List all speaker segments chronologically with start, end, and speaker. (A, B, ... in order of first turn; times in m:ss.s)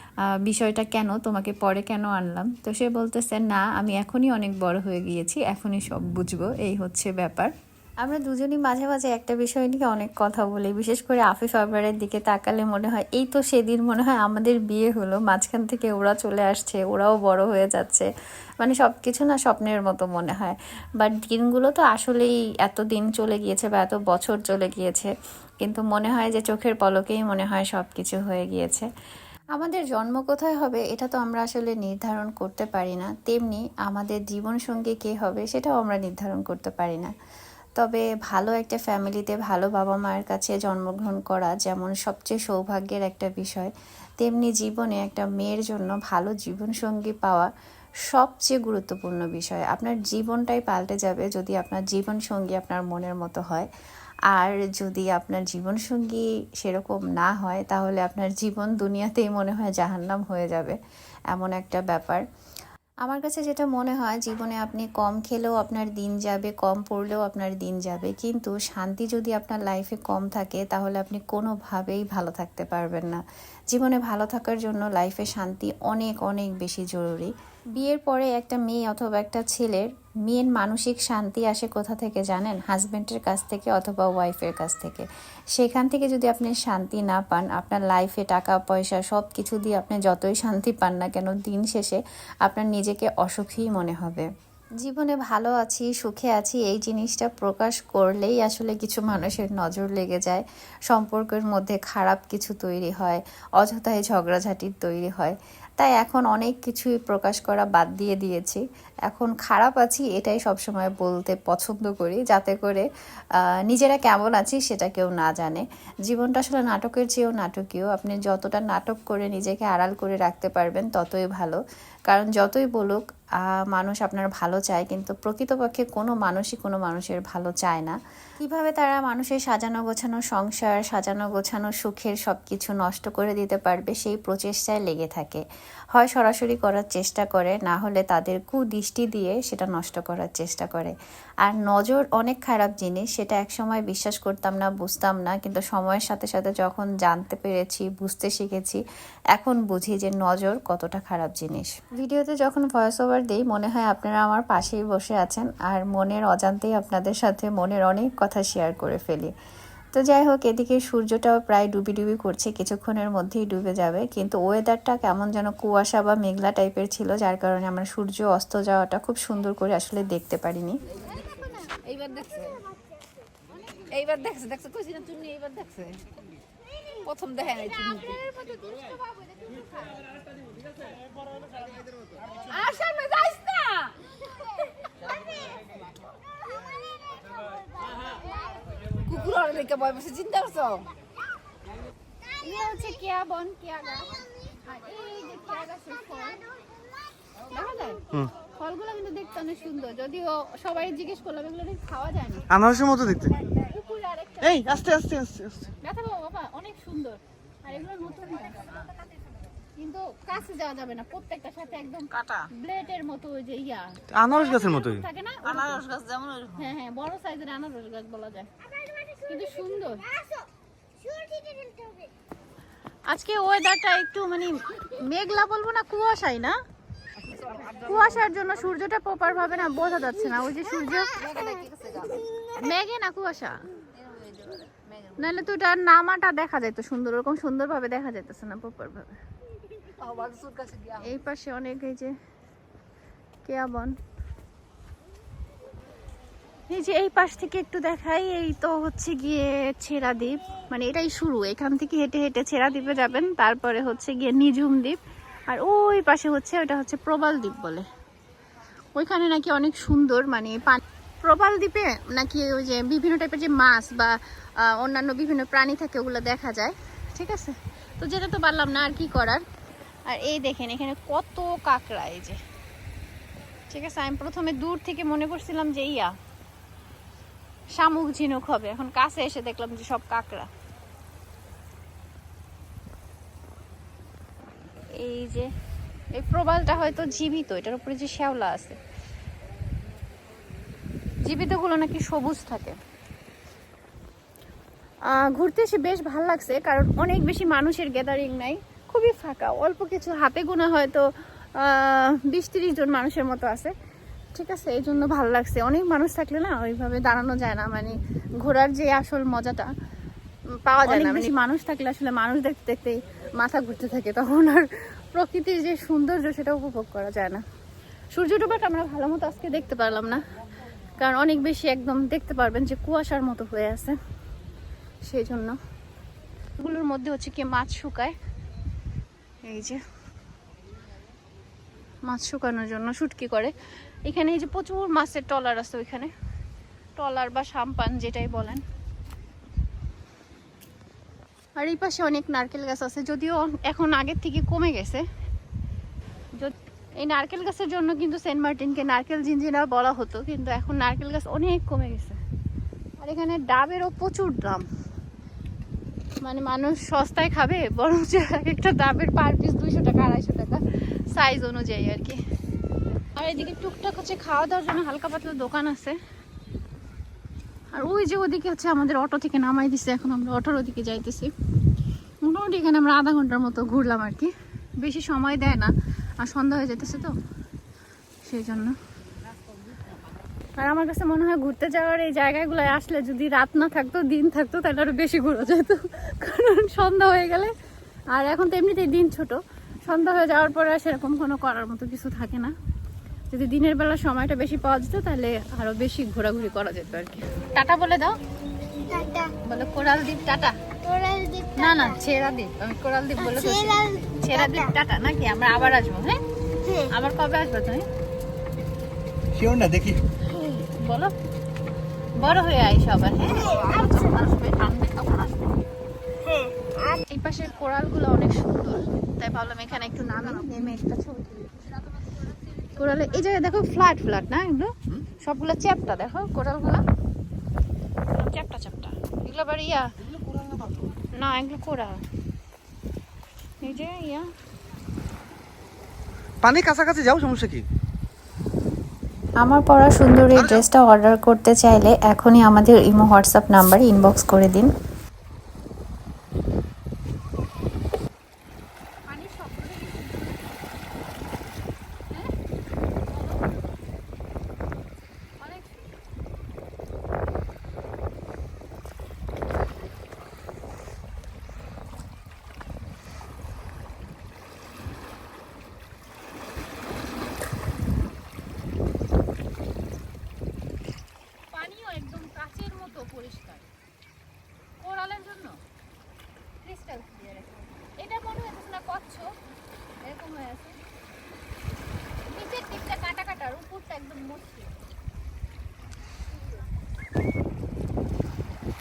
0:00.3-0:07.5 A
0:08.0-0:18.1 A
0:18.6-0:25.1 A
0:25.6-0:28.9 A
0:29.5-0:37.1 A
0:37.8-0:47.5 A
0:48.1-0:53.7 A
0:54.3-1:00.8 A
1:01.3-1:02.2 A
1:03.0-1:13.2 A
1:13.7-1:34.3 A
1:34.8-1:52.9 A
1:53.4-2:28.8 A
2:29.3-2:39.3 A
2:39.9-2:50.8 A
2:51.1-2:52.6 B
2:51.2-2:52.5 C
2:53.9-2:56.0 B
2:57.0-2:58.2 B
2:57.7-3:00.0 C
3:02.4-3:03.9 B
3:09.1-3:10.9 B
3:12.4-3:16.5 C
3:17.5-3:18.0 C
3:18.6-3:22.4 C
3:22.5-3:23.4 D
3:23.6-3:24.8 C
3:24.4-3:25.4 D
3:25.8-3:28.7 C
3:29.8-3:35.8 C
3:34.1-3:35.0 D
3:35.5-3:36.6 B
3:36.6-3:38.5 C
3:39.1-3:40.1 C
3:41.4-3:41.8 C
3:43.1-3:46.6 C
3:47.4-3:48.1 B
3:47.8-3:51.5 C
3:51.1-3:52.5 B
3:52.6-3:53.6 C
3:54.0-3:55.3 B
3:55.2-3:59.1 C
4:00.0-4:01.1 B
4:01.0-4:02.1 C
4:03.4-4:03.9 C
4:06.7-4:15.0 C
4:15.5-4:17.8 C
4:18.9-4:29.4 C
4:30.0-4:32.4 C
4:33.7-4:36.1 C
4:37.7-4:40.5 C
4:45.0-4:45.5 C
4:46.1-4:48.8 C
4:51.2-4:52.8 C
4:55.0-5:03.7 C
5:04.3-5:09.7 C
5:10.6-5:17.4 C
5:10.9-5:11.3 A
5:18.1-5:20.2 C
5:21.0-5:24.0 C
5:25.0-5:25.6 C
5:26.6-5:28.2 C
5:29.4-5:29.8 C
5:32.0-5:36.1 C
5:37.0-5:38.6 C
5:41.6-5:45.0 C
5:46.4-5:52.2 C
5:53.0-5:54.6 C
5:56.2-6:02.2 C
6:03.2-6:06.0 C
6:07.7-6:11.3 C
6:12.2-6:17.2 C
6:18.2-6:18.8 C
6:20.6-6:27.5 C
6:28.1-6:32.5 C
6:33.3-6:38.2 C
6:38.9-6:46.2 C
6:46.8-6:47.8 C
6:49.4-6:50.0 D
6:50.3-6:51.1 C
6:52.2-6:55.4 C
6:57.1-7:01.5 C
7:02.8-7:06.8 C
7:08.1-7:09.9 C
7:11.1-7:12.0 C
7:13.6-7:14.3 C
7:16.4-7:17.6 D
7:19.4-7:24.7 A
7:20.4-7:20.6 D
7:29.1-7:30.5 C
7:35.4-7:35.7 C
7:51.5-7:53.6 C
7:54.8-7:55.6 C
7:56.6-7:59.3 C
8:00.0-8:00.8 C
8:02.3-8:04.7 C